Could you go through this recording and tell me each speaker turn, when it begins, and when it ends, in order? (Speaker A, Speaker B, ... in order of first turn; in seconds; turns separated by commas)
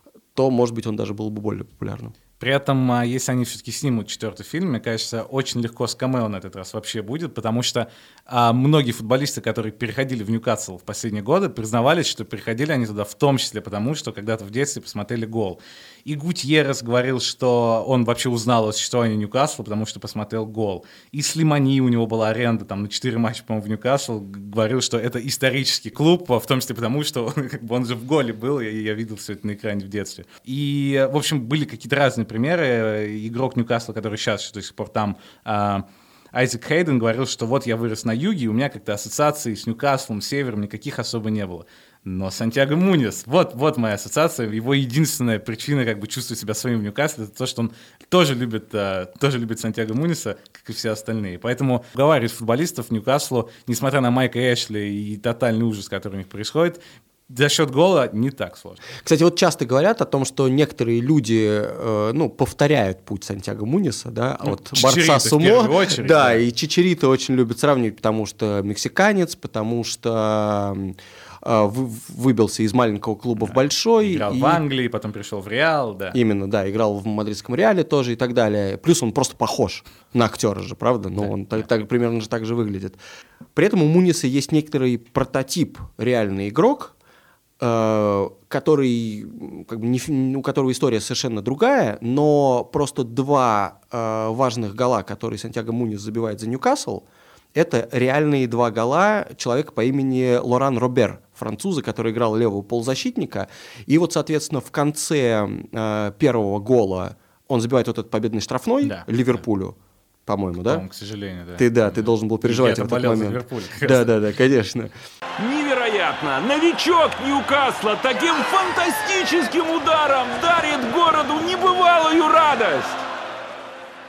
Speaker A: 0.3-2.1, Speaker B: 2.4-58.8, Speaker A: 59.0-74.6, Speaker B: 64.4-66.4, Speaker B: 73.4-76.2, Speaker A: 76.1-83.0, Speaker B: 81.2-81.6, Speaker A: 83.5-86.9, Speaker A: 87.6-109.8, Speaker A: 110.3-110.8, Speaker B: 110.6-114.1, Speaker A: 111.6-114.9, Speaker C: 115.4-123.0